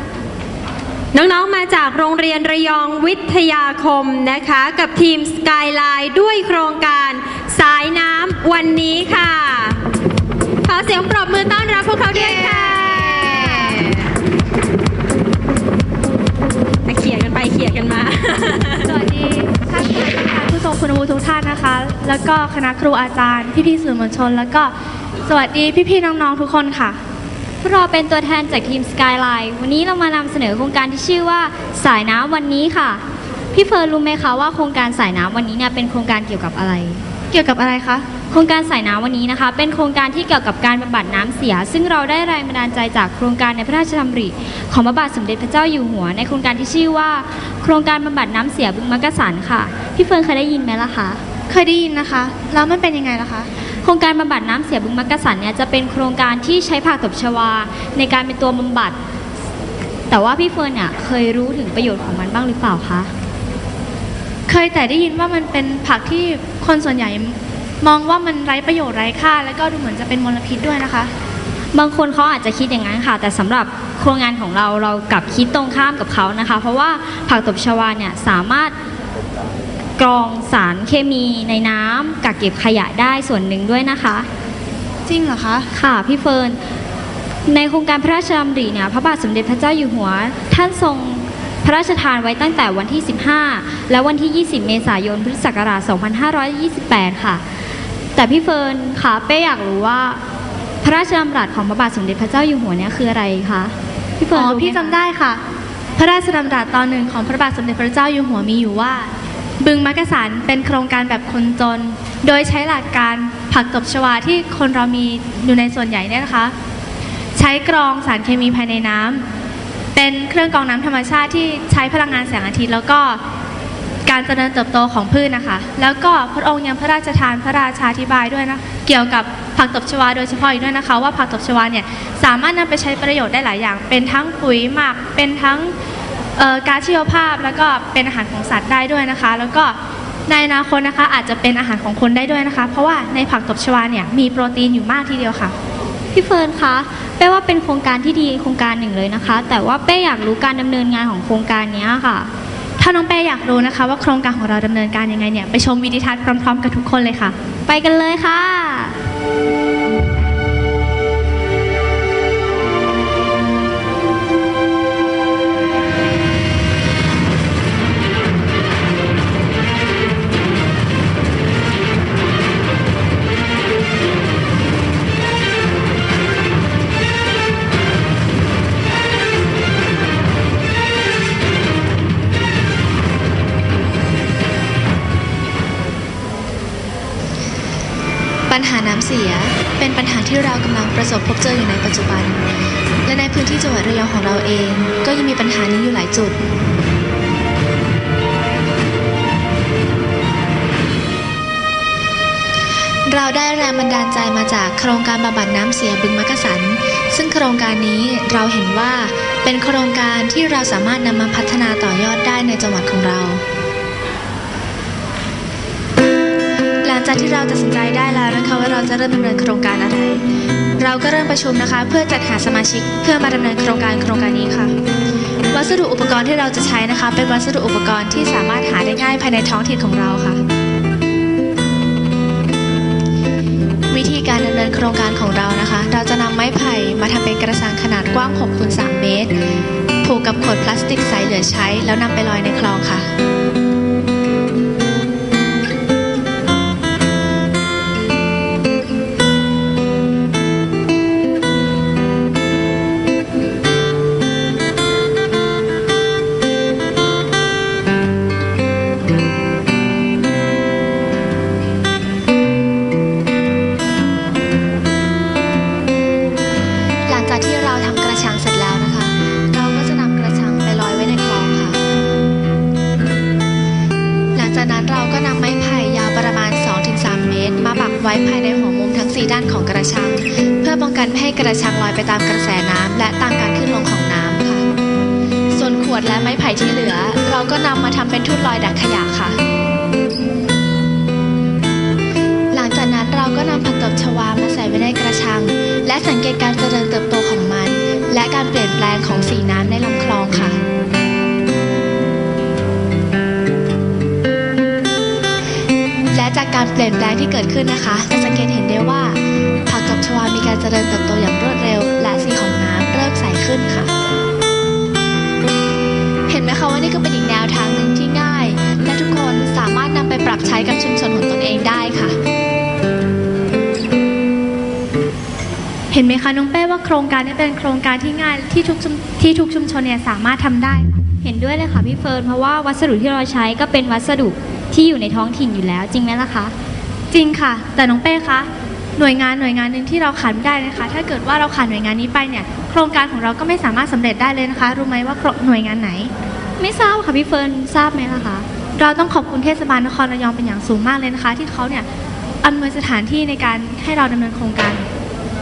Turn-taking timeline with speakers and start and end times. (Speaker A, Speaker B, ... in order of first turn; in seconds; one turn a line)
Speaker A: 1.1-9.8
Speaker A: 10.6-14.1
Speaker B: 12.1-13.8
Speaker A: 16.8-18.9
Speaker B: 18.8-24.7
Speaker B: 25.3-27.0
Speaker C: 27.6-37.0
Speaker B: 37.3-38.0
Speaker C: 38.3-51.2
Speaker B: 51.5-53.5
Speaker C: 53.8-59.0
Speaker C: 60.1-63.1
Speaker B: 64.5-71.1
Speaker C: 71.7-78.7
Speaker C: 80.0-84.3
Speaker B: 85.1-85.5
Speaker D: 85.1-85.6
Speaker C: 85.7-86.6
Speaker C: 87.5-97.4
Speaker C: 98.2-100.2
Speaker C: 100.8-104.9
Speaker B: 104.3-105.4
Speaker D: 104.6-104.9
Speaker B: 106.0-109.1
Speaker B: 109.6-116.5
Speaker B: 117.3-119.2
Speaker B: 119.9-123.2
Speaker B: 124.0-135.7
Speaker B: 136.4-139.8
Speaker B: 140.3-145.5
Speaker C: 146.1-152.3
Speaker B: 152.8-157.3
Speaker C: 157.7-159.0
Speaker D: 188.5-192.4
Speaker D: 193.0-196.4
Speaker D: 203.1-213.4
Speaker D: 216.8-220.2
Speaker D: 220.8-224.7
Speaker D: 225.5-230.4
Speaker D: 233.9-243.1
Speaker D: 267.1-271.8
Speaker D: 274.3-284.6
Speaker D: 285.5-289.4
Speaker D: 292.5-300.6
Speaker D: 306.1-313.9
Speaker D: 316.3-322.2
Speaker B: 325.9-331.0
Speaker C: 331.2-336.5
Speaker B: 337.1-346.1
Speaker C: 346.6-348.5
Speaker B: 348.8-351.9
Speaker B: 352.4-354.9